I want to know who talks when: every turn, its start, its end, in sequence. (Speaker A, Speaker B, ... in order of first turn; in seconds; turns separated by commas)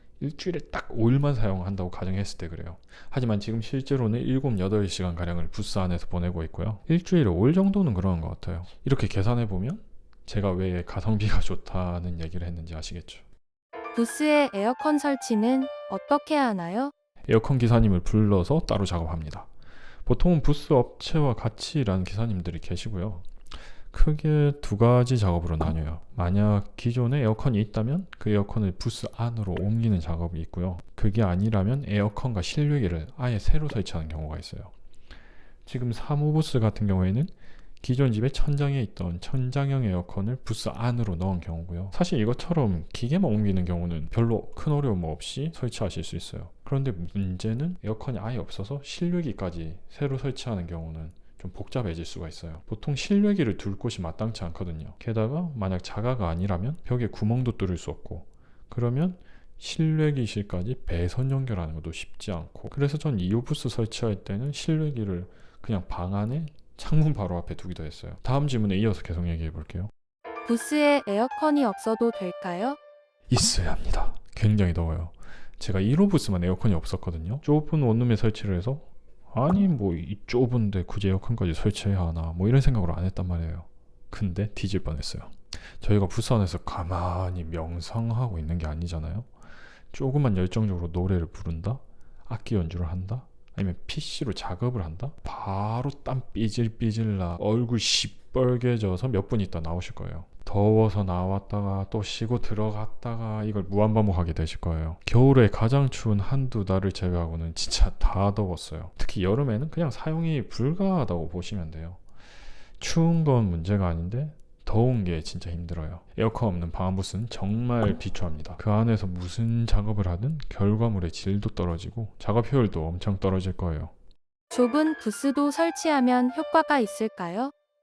Speaker A: 0.2-13.2, Speaker B: 13.9-16.9, Speaker A: 17.3-19.5, Speaker A: 20.1-23.3, Speaker A: 23.9-34.7, Speaker A: 35.6-69.9, Speaker B: 70.5-72.8, Speaker A: 73.3-89.3, Speaker A: 89.9-112.0, Speaker A: 112.8-123.9, Speaker B: 124.5-127.5